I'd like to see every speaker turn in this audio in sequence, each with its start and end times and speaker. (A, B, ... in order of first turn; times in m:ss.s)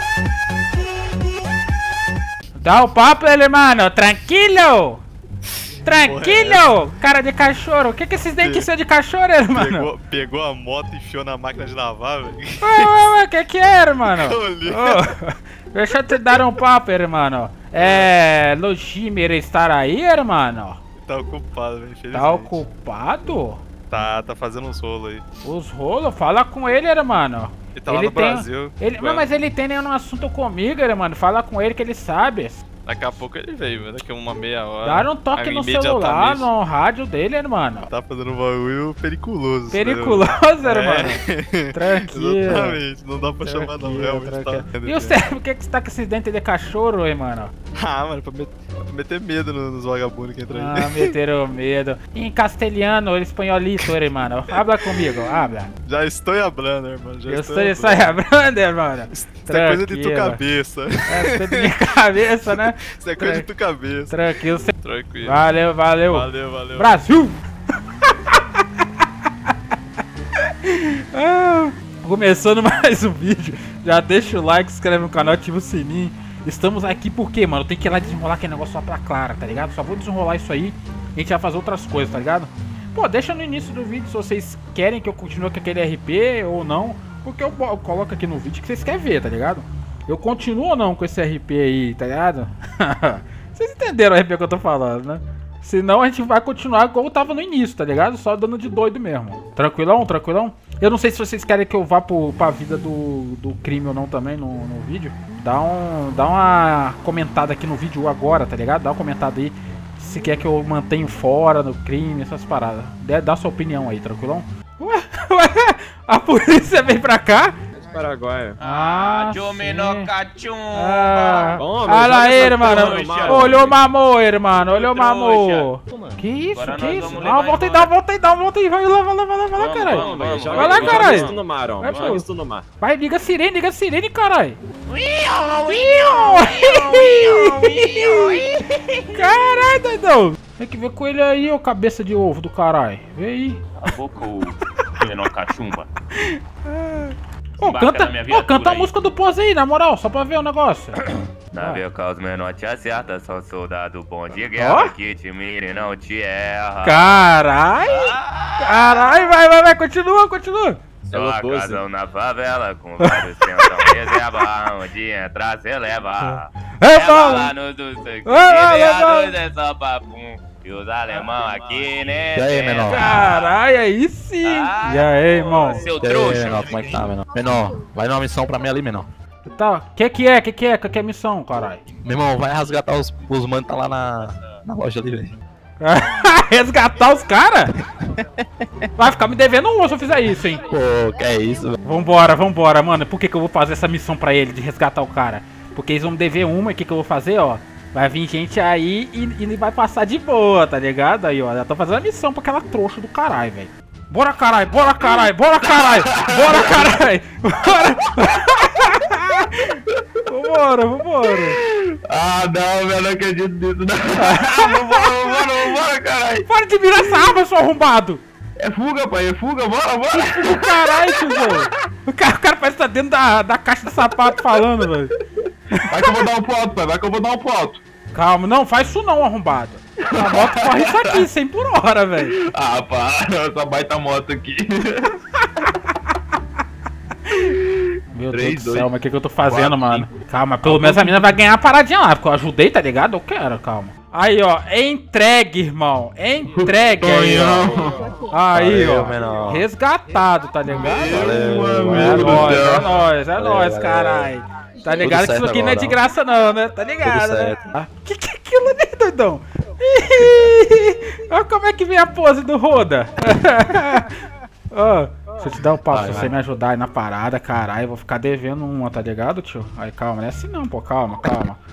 0:02.6-0:05.0 A
0:05.8-0:09.9 A
0:06.0-0:06.8 B
0:08.4-0:08.7 B
0:09.5-0:13.1 B
0:12.6-0:20.8 A
0:14.0-0:15.1 B
0:17.8-0:18.1 B
0:21.0-0:22.6 B
0:22.1-0:23.6 A
0:23.9-0:25.2 B
0:25.4-0:32.6 A
0:27.7-0:29.3 B
0:32.8-0:36.5 B
0:34.8-0:37.9 A
0:37.9-0:45.2 B
0:39.7-0:41.2 A
0:41.7-0:42.8 A
0:43.4-0:47.5 A
0:47.7-0:51.1 B
0:50.5-0:55.7 A
0:54.5-0:55.2 B
0:55.8-0:58.2 B
0:57.2-1:00.4 A
0:59.1-1:04.2 B
1:01.1-1:03.5 A
1:04.1-1:04.7 A
1:04.8-1:05.5 B
1:05.2-1:07.4 A
1:06.0-1:07.0 B
1:08.0-1:09.5 A
1:10.4-1:57.6 A
1:57.8-1:58.6 C
1:58.6-2:01.6 D
1:58.6-2:00.1 A
2:00.7-2:12.2 A
2:01.6-2:03.8 C
2:02.4-2:03.6 D
2:04.7-2:05.7 D
2:05.9-2:06.2 C
2:06.5-2:07.9 D
2:07.0-2:07.3 C
2:09.6-2:12.2 D
2:09.9-2:12.6 C
2:12.8-2:14.6 A
2:14.9-2:18.6 D
2:15.7-2:18.5 A
2:19.1-2:23.6 A
2:23.8-2:25.9 D
2:26.2-2:31.0 A
2:27.6-2:28.9 D
2:31.5-2:37.2 D
2:31.6-2:31.8 A
2:34.5-2:34.9 A
2:36.8-2:40.8 A
2:37.8-2:39.3 D
2:41.0-2:41.8 C
2:41.1-2:53.5 D
2:43.0-2:44.4 A
2:46.2-2:47.5 A
2:48.2-2:49.4 A
2:51.6-2:51.8 C
2:52.3-2:53.1 E
2:52.9-2:55.9 A
2:54.4-2:57.1 D
2:56.0-2:59.1 E
2:59.4-3:01.8 A
3:02.0-3:05.3 E
3:05.8-3:07.7 A
3:09.0-3:10.6 A
3:10.6-3:11.8 E
3:11.8-3:31.6 A
3:25.7-3:27.0 E
3:31.3-3:36.5 E
3:34.2-3:35.6 A
3:36.5-3:38.2 A
3:37.0-3:37.3 E
3:38.6-3:41.6 E
3:40.1-3:45.1 A
3:45.9-3:47.8 E
3:48.1-3:52.3 A
3:50.0-3:51.2 E
3:52.2-3:55.2 E
3:58.1-4:24.1 A
3:58.3-3:58.9 E
3:59.4-4:00.1 E
4:00.6-4:01.2 E
4:06.5-4:09.6 E
4:10.8-4:13.0 E
4:11.5-4:12.3 C
4:13.4-4:14.2 C
4:15.0-4:15.9 E
4:15.0-4:15.7 C
4:17.1-4:17.4 C
4:24.7-4:31.6 A
4:25.9-4:26.3 E